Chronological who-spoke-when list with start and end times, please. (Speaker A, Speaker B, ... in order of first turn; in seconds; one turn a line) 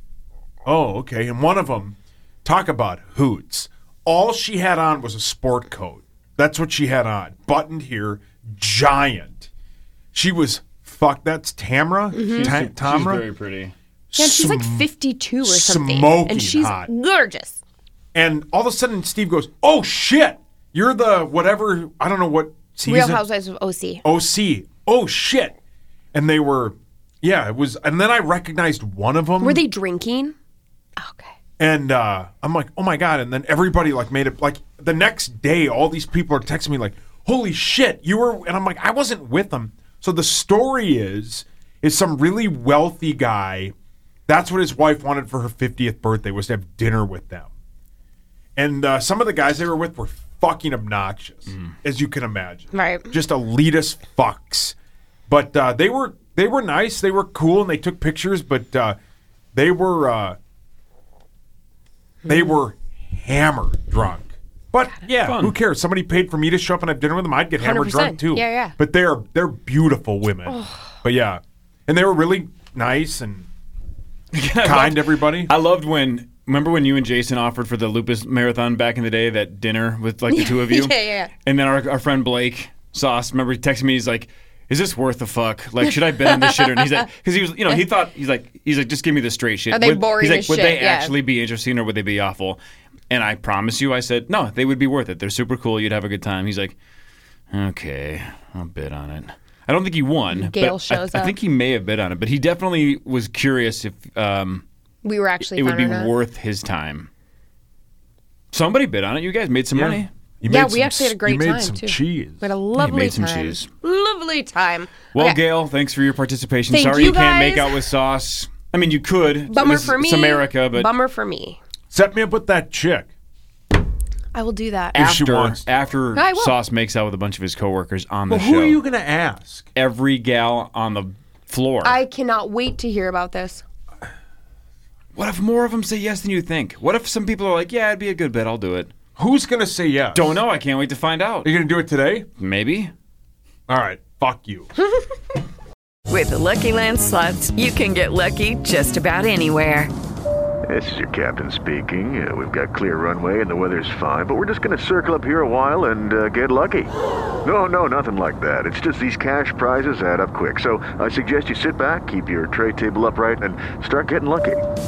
Speaker A: 0.7-9.5
Speaker A: 10.1-13.2
Speaker B: 12.1-12.5
Speaker C: 12.2-13.7
Speaker A: 14.1-14.9
Speaker B: 14.2-17.6
Speaker A: 15.4-16.9
Speaker A: 18.1-23.2
Speaker B: 22.9-24.0
Speaker A: 24.0-25.6
Speaker A: 26.1-29.6
Speaker B: 29.4-30.4
Speaker B: 31.0-31.3
Speaker A: 31.6-43.7
Speaker A: 44.3-47.5
Speaker A: 48.6-54.8
Speaker B: 52.7-53.1
Speaker A: 55.3-59.0
Speaker A: 59.5-60.4
Speaker B: 62.2-62.6
Speaker A: 62.3-73.5
Speaker C: 65.2-65.6
Speaker B: 67.6-68.8
Speaker B: 70.5-70.9
Speaker C: 74.3-92.6
Speaker A: 74.6-75.5
Speaker B: 80.3-81.3
Speaker B: 86.2-86.9
Speaker B: 89.7-91.2
Speaker C: 93.1-96.8
Speaker C: 97.5-104.6
Speaker B: 100.3-101.4
Speaker B: 105.0-106.1
Speaker C: 105.5-107.1
Speaker C: 108.5-110.1
Speaker A: 109.7-112.5
Speaker B: 110.5-115.4
Speaker C: 112.8-113.7
Speaker C: 115.1-120.9
Speaker B: 116.7-117.8
Speaker B: 119.5-121.6
Speaker A: 121.9-123.1
Speaker B: 124.3-125.0
Speaker C: 124.9-128.8
Speaker A: 125.0-125.6
Speaker B: 126.2-126.5
Speaker A: 128.3-129.7
Speaker C: 129.8-132.0
Speaker B: 131.8-133.6
Speaker C: 135.2-138.9
Speaker A: 139.2-140.4
Speaker C: 140.2-141.5
Speaker A: 141.4-142.3
Speaker C: 142.4-142.9
Speaker A: 143.7-144.7
Speaker D: 146.1-149.9
Speaker E: 150.7-156.9
Speaker E: 157.4-164.6